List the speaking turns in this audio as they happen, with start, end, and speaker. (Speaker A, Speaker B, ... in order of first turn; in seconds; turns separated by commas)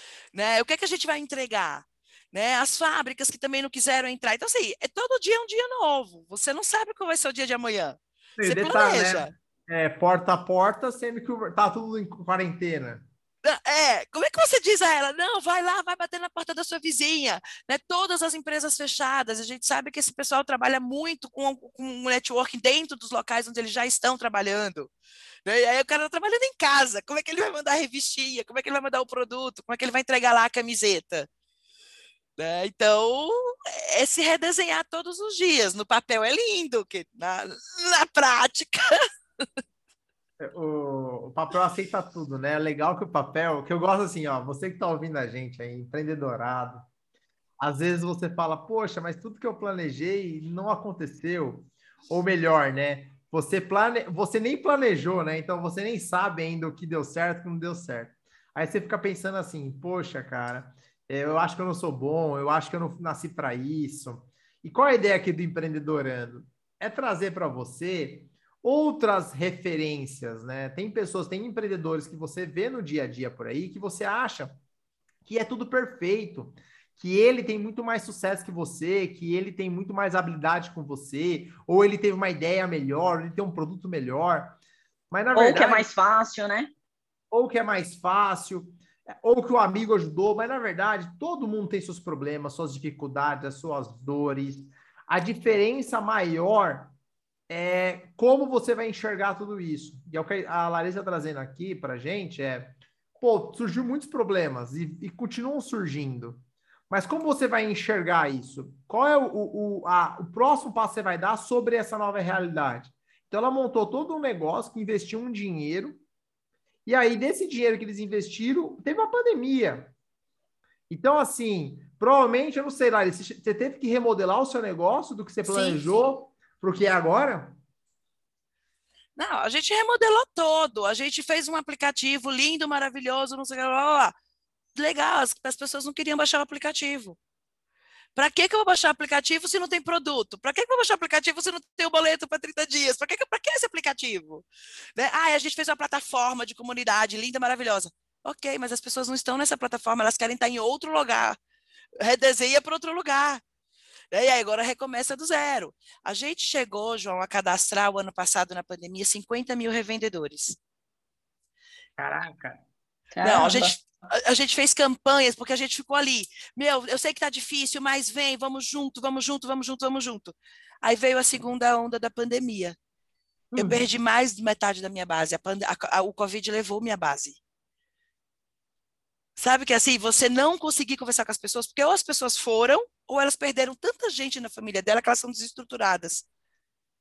Speaker A: 0.3-9.3, Speaker B: 8.4-13.1, Speaker A: 13.4-24.9, Speaker A: 25.4-31.3, Speaker A: 32.4-38.9, Speaker B: 40.4-46.8, Speaker B: 47.6-74.6, Speaker B: 75.2-84.6, Speaker B: 85.1-85.9, Speaker C: 85.3-86.7, Speaker B: 87.3-96.9, Speaker B: 97.5-116.0, Speaker B: 116.8-119.9, Speaker B: 120.9-127.6, Speaker A: 125.5-126.0, Speaker A: 129.2-134.1, Speaker A: 134.7-137.2, Speaker A: 138.2-151.4, Speaker A: 152.0-153.4, Speaker A: 154.1-160.6, Speaker B: 162.0-162.6, Speaker C: 163.1-163.7, Speaker A: 163.2-172.8, Speaker B: 173.5-173.8, Speaker A: 173.6-177.4, Speaker A: 179.4-186.3